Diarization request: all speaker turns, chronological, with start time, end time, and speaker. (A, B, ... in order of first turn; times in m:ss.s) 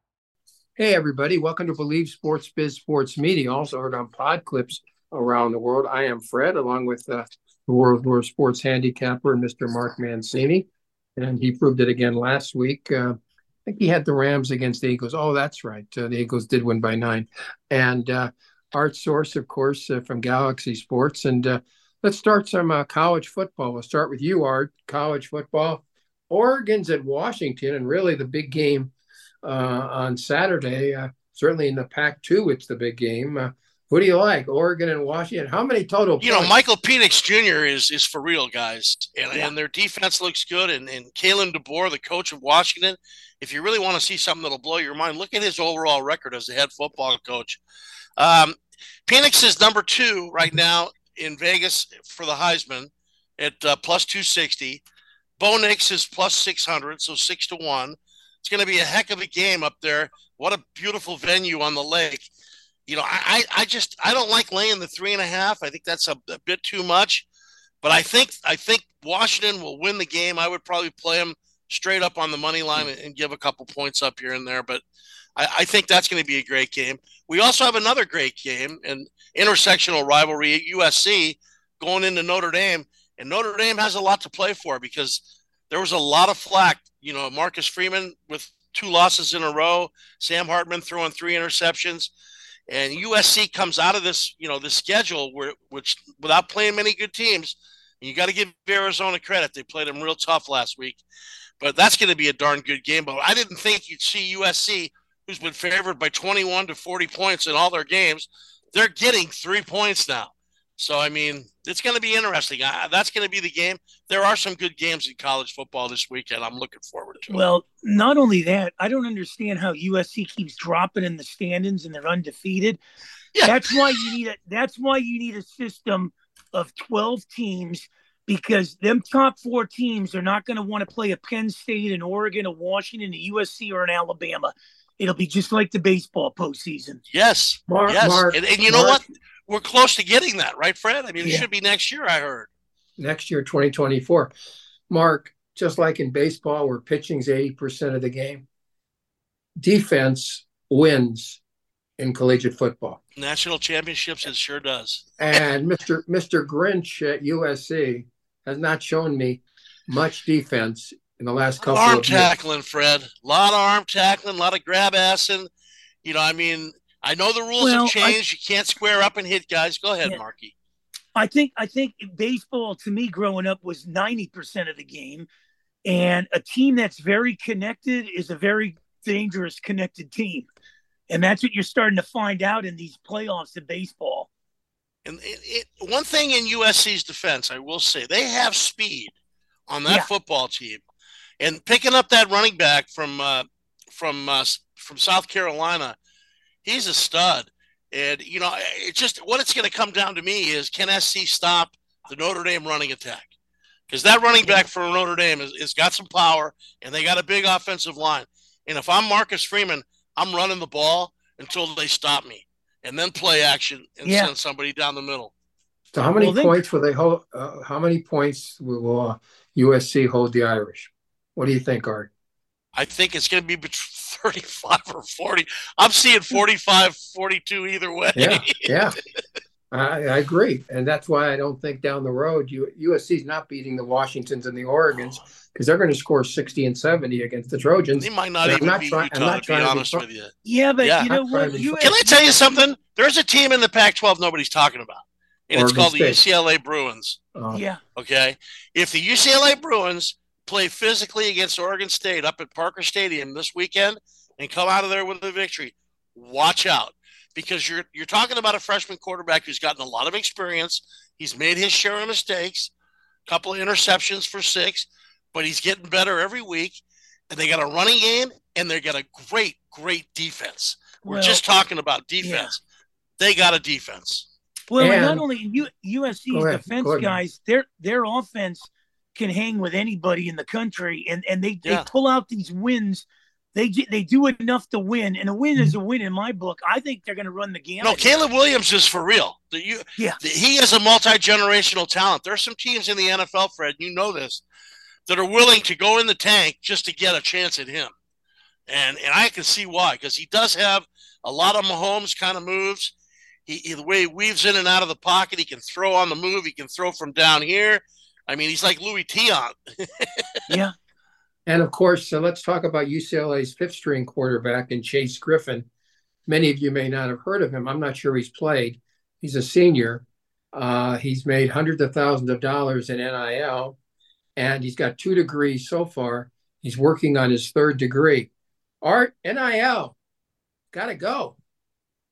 0:00.8-0:36.5 A
0:36.2-0:47.6 B
0:48.2-0:54.8 B
0:55.4-1:02.3 B
1:02.9-1:07.3 B
1:07.8-1:14.8 B
1:15.4-1:32.1 B
1:32.7-1:41.0 B
1:41.6-1:57.4 B
1:57.3-2:02.8 C
2:03.4-2:04.1 B
2:03.4-2:17.0 C
2:17.1-2:22.5 B
2:17.7-2:19.0 A
2:21.2-2:21.5 C
2:23.0-2:24.3 A
2:24.9-2:28.5 A
2:29.6-2:31.4 A
2:32.0-2:33.0 A
2:33.2-2:35.1 B
2:35.2-2:42.3 A
2:41.6-2:45.5 B
2:46.0-2:50.5 B
2:47.6-2:48.2 C
2:51.2-2:55.3 C
2:55.8-3:00.5 C
3:01.1-3:04.3 C
3:05.0-3:09.1 B
3:09.7-3:10.8 B
3:11.4-3:16.0 B
3:16.6-3:23.3 B
3:23.9-3:35.3 B
3:24.4-3:24.6 C
3:34.0-3:34.3 C
3:35.9-3:42.1 A
3:36.2-3:36.6 C
3:42.8-3:48.6 B
3:48.2-3:49.0 A
3:49.7-4:00.0 A
3:58.0-4:01.1 B
4:00.4-4:02.2 C
4:01.0-4:01.9 A
4:01.8-4:07.2 B
4:05.5-4:06.2 A
4:07.4-4:07.6 A
4:07.5-4:07.8 C
4:08.0-4:22.7 B
4:23.3-4:32.6 B
4:31.0-4:31.4 C
4:32.2-4:32.5 C
4:33.2-4:34.3 B
4:34.7-4:48.2 C
4:34.8-4:35.2 A
4:36.3-4:37.2 A
4:47.8-4:54.4 B
4:55.1-4:57.9 B
4:58.7-5:02.9 B
5:03.5-5:10.4 B
5:10.5-5:10.7 C
5:11.5-5:15.7 A
5:16.3-5:23.8 A
5:24.4-5:28.3 A
5:28.8-5:30.0 A
5:30.7-5:31.4 A